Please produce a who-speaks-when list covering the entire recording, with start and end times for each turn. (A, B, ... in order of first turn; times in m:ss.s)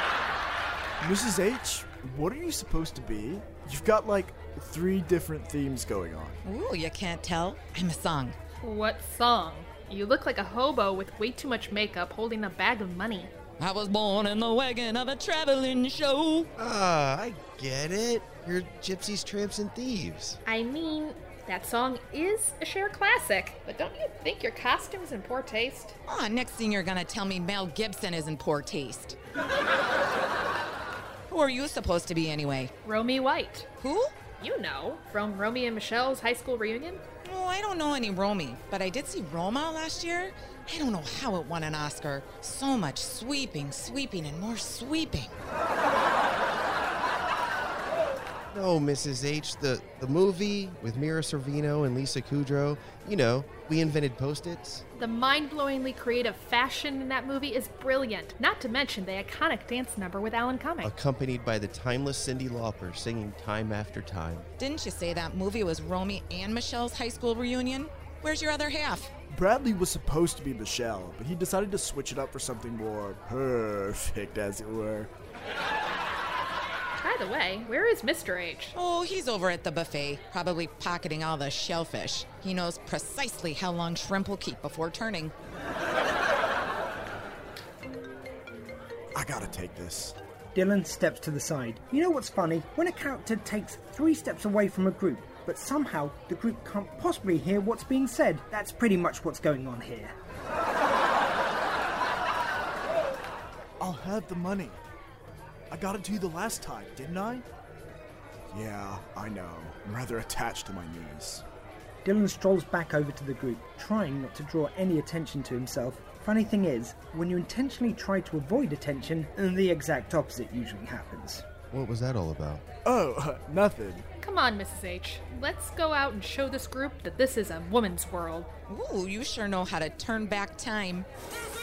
0:01.0-0:06.4 A
0:06.4-0:08.4 B
0:08.6-0:13.3 C
0:13.6-0:16.5 B
0:16.6-0:20.4 D
0:20.4-0:26.0 C
0:26.1-0:29.2 B
0:31.3-0:32.7 B
0:32.8-0:33.7 C
0:33.8-0:34.1 B
0:34.4-0:37.0 C
0:37.2-0:45.3 B
0:48.5-0:54.8 D
0:55.0-1:00.9 C
1:00.8-1:04.5 D
1:04.6-1:09.1 B
1:09.3-1:15.1 A
1:17.0-1:18.7 C
1:18.7-1:25.3 B
1:29.1-1:30.2 A
1:30.5-1:40.1 E
1:43.8-1:44.8 A
1:45.7-1:47.5 A
1:48.5-1:51.4 A
1:52.0-2:01.4 E
2:01.7-2:02.6 D
2:02.8-2:04.0 A
2:04.2-2:08.5 C
2:08.7-2:11.1 B